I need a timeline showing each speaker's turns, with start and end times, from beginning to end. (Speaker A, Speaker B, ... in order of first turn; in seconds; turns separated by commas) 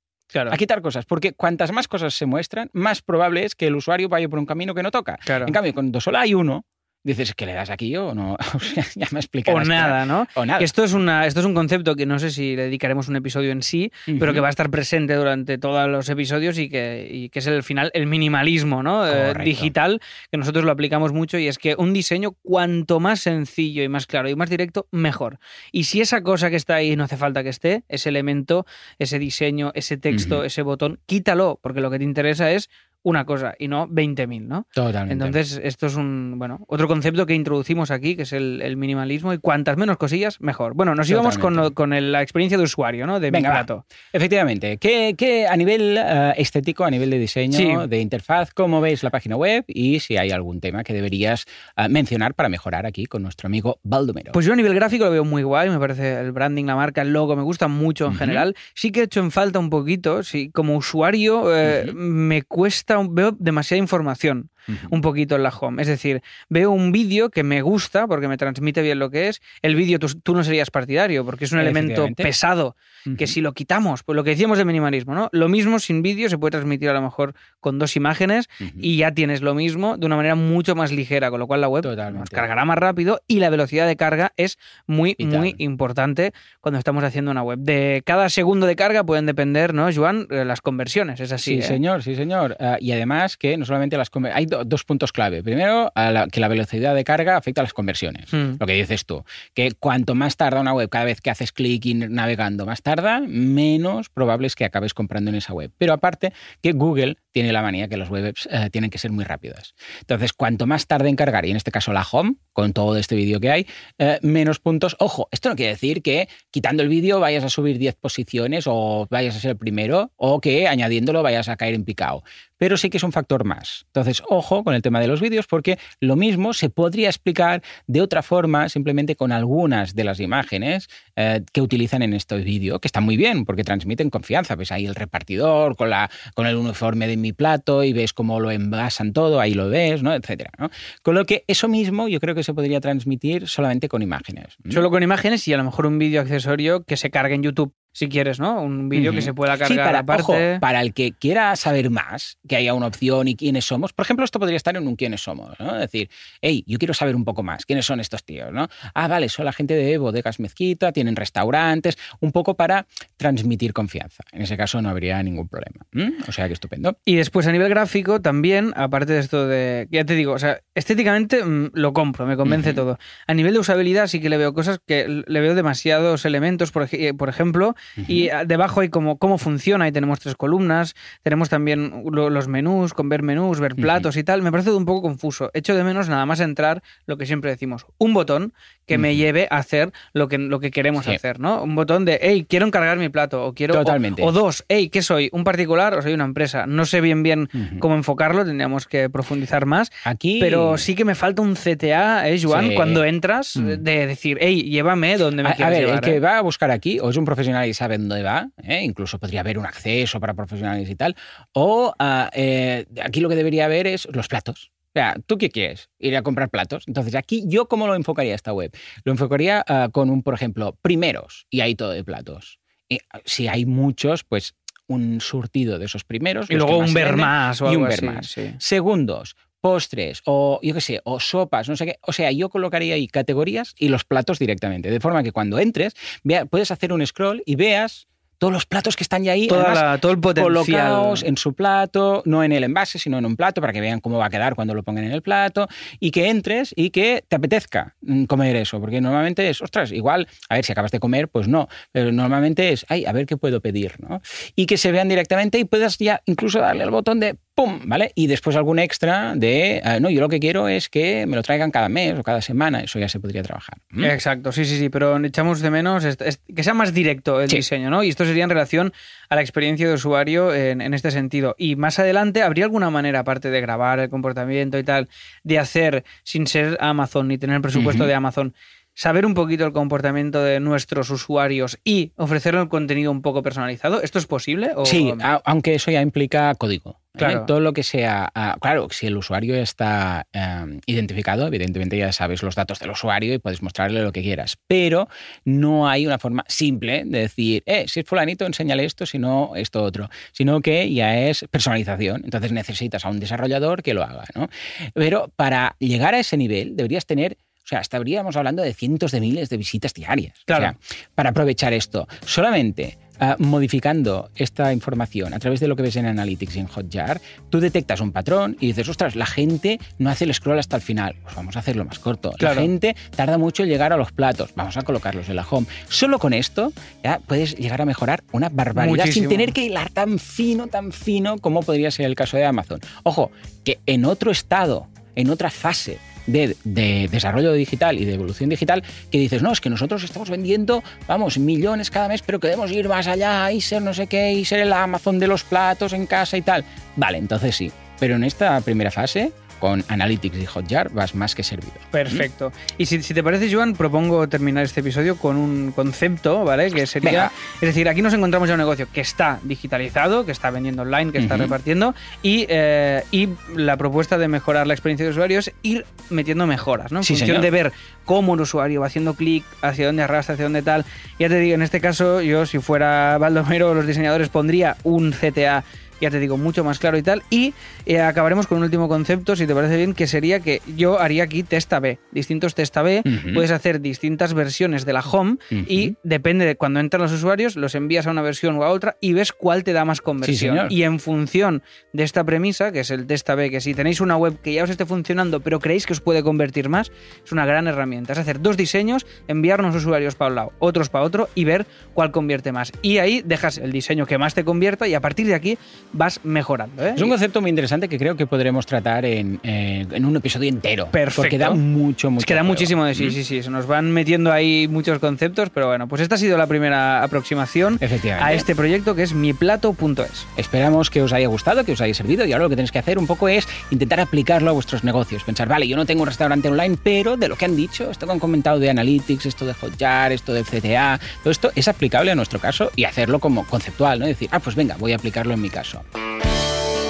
Speaker A: 0.3-0.6, Speaker B: 0.5-10.7, Speaker A: 5.2-5.5, Speaker A: 9.5-43.8, Speaker B: 14.1-14.4, Speaker B: 19.1-19.7, Speaker B: 30.1-30.4, Speaker B: 34.8-35.4, Speaker B: 41.0-41.7, Speaker B: 43.3-54.4, Speaker A: 47.5-47.8, Speaker A: 54.3-91.8, Speaker B: 58.1-58.4, Speaker B: 61.6-62.0, Speaker B: 64.7-65.0, Speaker B: 71.6-72.3, Speaker B: 73.1-73.3, Speaker B: 78.6-78.9, Speaker B: 81.8-82.5, Speaker B: 85.2-85.6, Speaker B: 91.4-144.8, Speaker A: 98.3-98.6, Speaker A: 144.7-150.6, Speaker B: 148.9-166.9, Speaker A: 167.1-206.2, Speaker B: 172.4-172.8, Speaker B: 178.0-178.3, Speaker B: 183.8-184.1, Speaker B: 188.9-189.2, Speaker B: 193.7-194.3, Speaker B: 197.5-197.8, Speaker B: 200.0-200.9, Speaker B: 202.5-203.0, Speaker B: 203.6-203.8, Speaker B: 205.4-264.1, Speaker A: 226.5-228.6, Speaker A: 239.5-241.2, Speaker A: 264.0-285.2, Speaker B: 277.7-278.1, Speaker B: 284.8-352.2, Speaker A: 287.2-287.5, Speaker A: 310.5-310.7, Speaker A: 322.4-322.7, Speaker A: 328.8-329.5, Speaker A: 351.9-407.1, Speaker B: 357.0-357.3, Speaker B: 361.2-361.6, Speaker B: 367.0-367.5, Speaker B: 383.1-383.4, Speaker B: 385.5-385.9, Speaker B: 390.2-390.7, Speaker B: 406.9-413.2, Speaker A: 410.9-411.6, Speaker A: 412.2-420.3, Speaker B: 417.8-418.4, Speaker B: 420.4-435.8